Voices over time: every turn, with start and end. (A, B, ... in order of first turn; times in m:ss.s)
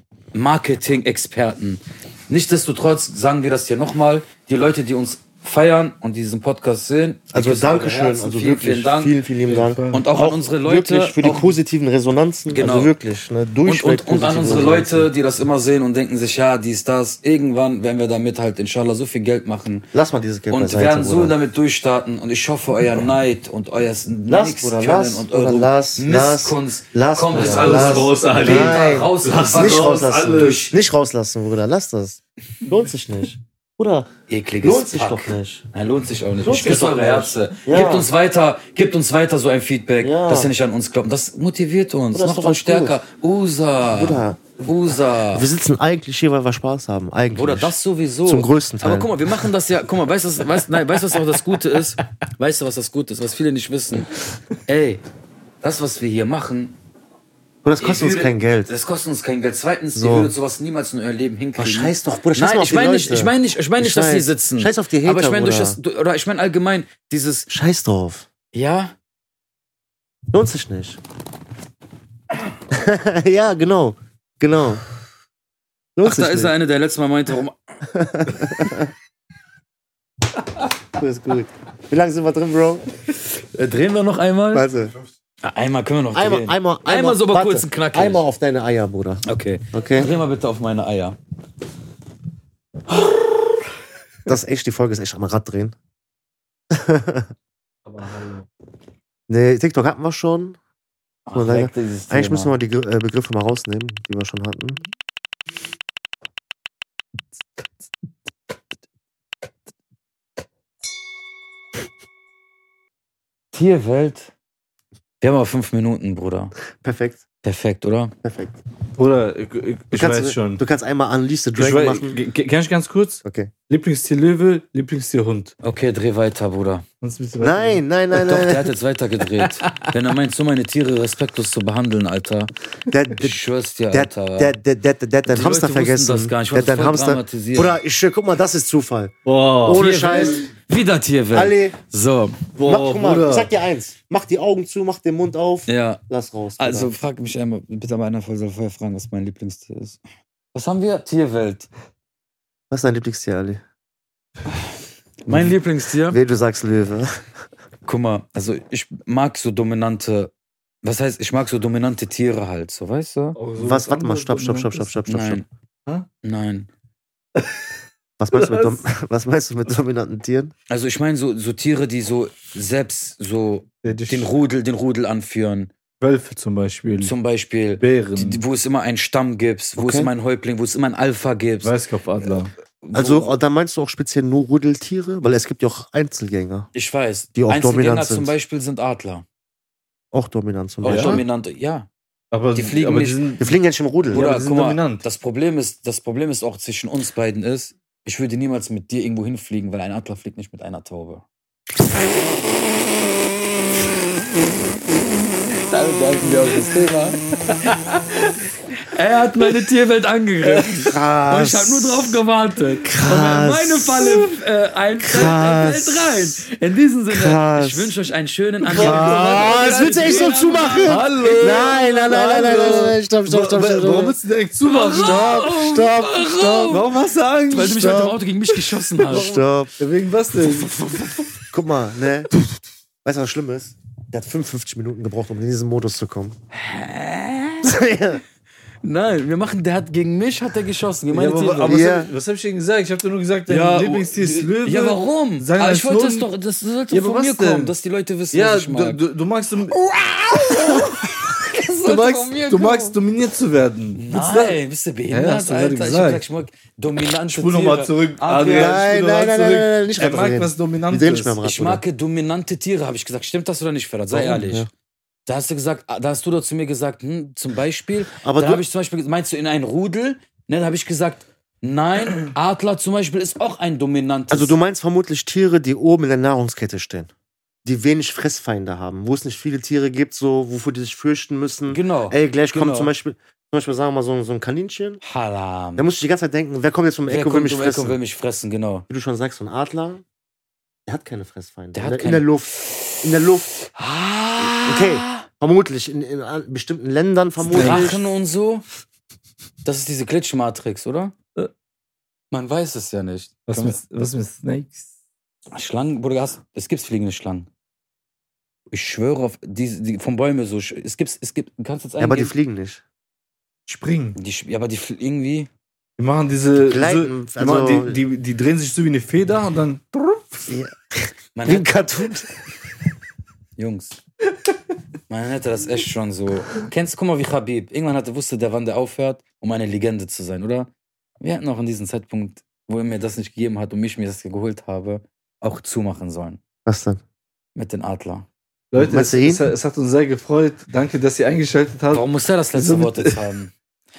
0:00.3-0:09.1 A
0:07.3-0:15.1 B
0:09.5-0:10.1 C
0:09.9-0:11.5 A
0:12.5-0:12.9 A
0:13.6-0:19.8 A
0:19.9-0:21.4 B
0:20.5-0:30.7 A
0:24.3-0:34.1 B
0:27.3-0:30.7 C
0:34.3-0:45.4 A
0:34.6-0:35.6 B
0:36.4-0:38.1 B
0:40.0-0:40.5 B
0:42.1-0:43.0 B
0:43.9-0:44.6 B
0:45.3-0:49.1 B
0:47.3-0:54.1 A
0:54.6-0:55.0 A
0:55.6-0:56.8 A
0:57.6-0:58.7 B
0:57.8-1:07.5 A
0:59.9-1:00.3 B
1:01.6-1:05.8 B
1:07.5-1:08.3 B
1:08.5-1:08.9 A
1:10.3-1:11.0 B
1:12.7-1:14.8 B
1:16.0-1:16.5 B
1:16.0-1:17.8 A
1:17.8-1:18.9 B
1:20.9-1:22.8 B
1:23.5-1:24.7 A
1:24.5-1:25.0 B
1:25.4-1:28.2 A
1:26.1-1:30.1 B
1:29.2-1:31.2 A
1:34.2-1:35.8 B
1:36.7-1:37.3 B
1:37.8-1:38.5 C
1:39.3-1:40.6 B
1:41.2-1:42.5 A
1:41.3-1:44.8 B
1:53.5-1:54.3 A
1:55.2-1:56.5 A
1:56.8-1:57.2 B
1:57.4-1:58.1 A
1:58.2-1:58.6 B
1:58.9-2:00.6 C
1:59.9-2:02.2 B
2:01.6-2:05.5 C
2:03.2-2:03.5 B
2:05.6-2:06.8 A
2:07.0-2:07.8 C
2:07.4-2:08.7 B
2:08.2-2:12.5 A
2:09.4-2:09.9 C
2:12.9-2:20.5 B
2:13.2-2:14.6 A
2:15.3-2:17.8 A
2:19.2-2:19.8 C
2:19.7-2:22.4 A
2:21.3-2:21.8 B
2:22.5-2:23.5 C
2:22.6-2:26.9 B
2:25.7-2:26.0 A
2:26.6-2:30.0 A
2:30.5-2:31.7 A
2:32.7-2:33.6 B
2:35.2-2:36.2 A
2:35.3-2:35.6 B
2:36.1-2:37.2 B
2:37.8-2:40.3 A
2:40.8-2:43.4 A
2:43.4-2:44.9 C
2:43.6-2:45.4 B
2:45.1-2:45.4 A
2:46.2-2:46.7 A
2:47.4-2:47.7 C
2:48.2-2:50.5 B
2:48.3-2:48.8 C
2:50.7-2:55.7 A
2:53.8-2:54.3 C
2:56.0-2:57.1 C
2:57.0-3:01.7 A
2:57.8-2:58.4 C
2:59.8-3:00.1 B
3:01.6-3:02.5 C
3:02.8-3:03.3 A
3:02.9-3:06.7 B
3:06.7-3:09.2 A
3:07.4-3:08.3 B
3:10.1-3:11.2 B
3:10.8-3:11.9 A
3:10.8-3:11.2 C
3:12.3-3:13.5 C
3:12.5-3:13.2 A
3:13.4-3:14.2 B
3:14.1-3:15.0 C
3:14.1-3:21.2 A
3:25.5-3:41.7 A
3:30.4-3:30.9 C
3:30.9-3:32.2 B
3:32.8-3:34.3 B
3:35.0-3:36.4 B
3:37.1-3:37.9 B
3:38.6-3:45.4 C
3:38.8-3:44.2 B
3:44.6-3:46.9 A
3:44.9-3:46.8 B
3:46.6-3:51.3 C
3:47.5-3:49.3 A
3:49.1-3:49.7 B
3:50.4-3:51.4 A
3:51.5-3:52.3 B
3:53.0-3:56.4 B
3:56.5-3:57.8 A
3:57.6-3:58.2 B
3:58.8-4:01.8 A
4:01.1-4:06.3 C
4:01.6-4:02.1 B
4:03.5-4:09.0 A
4:06.9-4:07.7 C
4:08.3-4:09.8 C
4:09.7-4:13.0 A
4:10.4-4:10.9 C
4:11.8-4:14.6 C
4:13.9-4:18.8 A
4:15.1-4:16.2 C
4:17.3-4:21.4 C
4:18.5-4:21.8 B
4:21.4-4:24.7 A
4:24.1-4:24.5 C
4:24.4-4:24.7 B
4:25.2-4:34.6 A
4:28.1-4:28.6 B
4:34.3-4:37.1 B
4:37.6-4:45.0 B
4:41.7-4:42.9 A
4:45.0-4:45.9 A
4:45.8-4:48.0 B
4:47.1-4:48.8 A
4:48.9-4:50.0 B
4:50.9-4:53.5 B
4:51.7-4:53.0 A
4:53.7-4:55.2 A
4:54.4-4:58.0 B
4:57.5-4:57.9 C
4:57.5-4:58.6 A
4:59.6-5:01.1 A
5:02.3-5:03.8 A
5:03.5-5:04.9 C
5:05.5-5:07.5 A
5:08.7-5:12.3 A
5:12.0-5:12.8 B
5:13.7-5:14.2 C
5:14.1-5:15.5 A
5:16.0-5:20.5 C
5:16.6-5:18.0 B
5:20.5-5:22.3 B
5:21.4-5:21.7 A
5:23.6-5:24.0 A
5:25.1-5:36.4 A
5:36.6-5:37.0 B
5:37.5-5:38.3 A
5:38.7-5:43.2 C
5:38.8-5:39.4 B
5:41.9-5:43.5 A